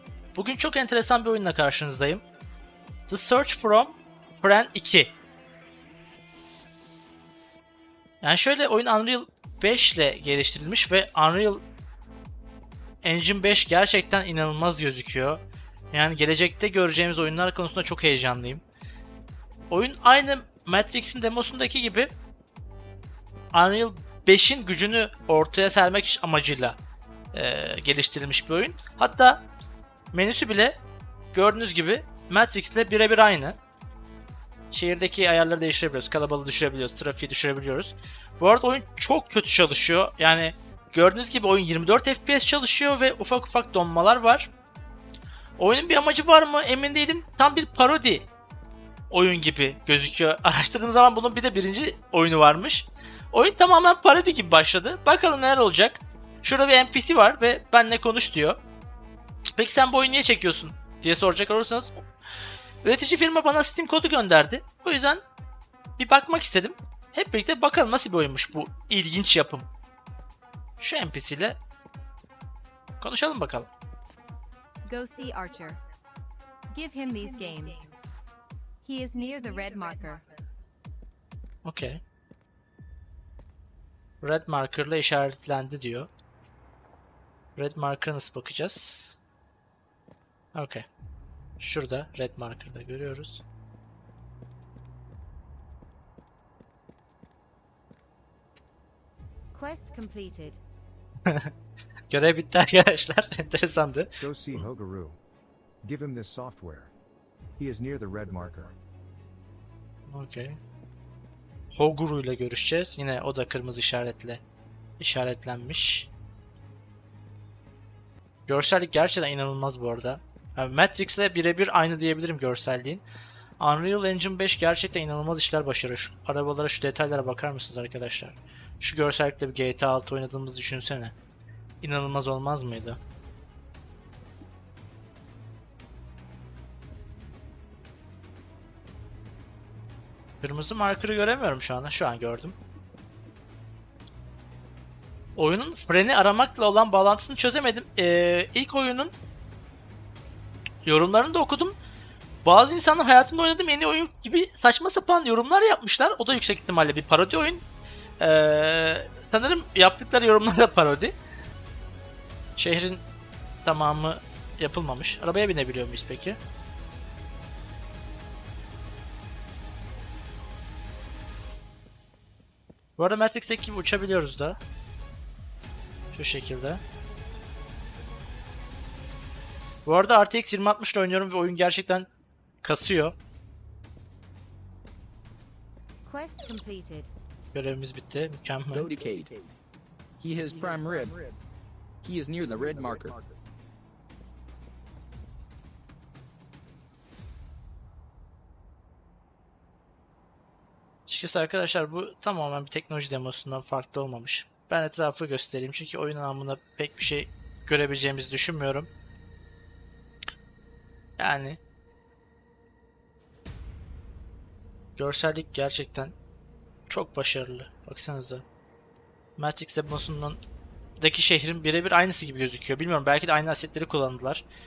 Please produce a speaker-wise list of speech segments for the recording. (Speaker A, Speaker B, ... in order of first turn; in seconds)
Speaker A: 0.3-2.2, 3.1-5.1, 8.2-11.6, 13.0-18.6, 19.7-22.1, 23.5-26.8, 27.3-29.4, 30.1-30.8, 31.3-33.6, 34.7-44.5, 45.6-48.3, 49.1-58.6, 59.5-62.0, 62.8-65.2, 66.0-69.7, 70.8-71.6, 73.0-73.7, 81.6-82.0, 84.2-86.1, 87.6-89.2, 90.5-90.8, 91.6-93.4, 101.3-101.5, 102.1-104.6, 110.1-110.6, 111.7-114.4, 115.0-116.1, 118.5-123.0, 123.6-131.1, 131.8-133.0, 140.4-142.6, 145.3-149.1, 150.8-151.8, 152.4-157.6, 158.2-161.2, 162.6-163.0, 163.6-166.4, 173.0-174.6, 176.1-176.8, 179.8-182.1, 182.6-183.2, 187.5-188.9, 201.1-208.9, 211.2-211.6, 215.0-216.1, 216.9-218.4, 219.4-220.4, 221.0-224.4
Speaker B: 74.9-75.8, 76.7-77.9, 78.8-80.3, 99.5-100.6, 186.0-187.1
Speaker C: 104.2-105.2, 105.8-106.9, 107.6-108.8
Speaker D: 188.7-189.3, 190.2-191.1, 192.0-193.2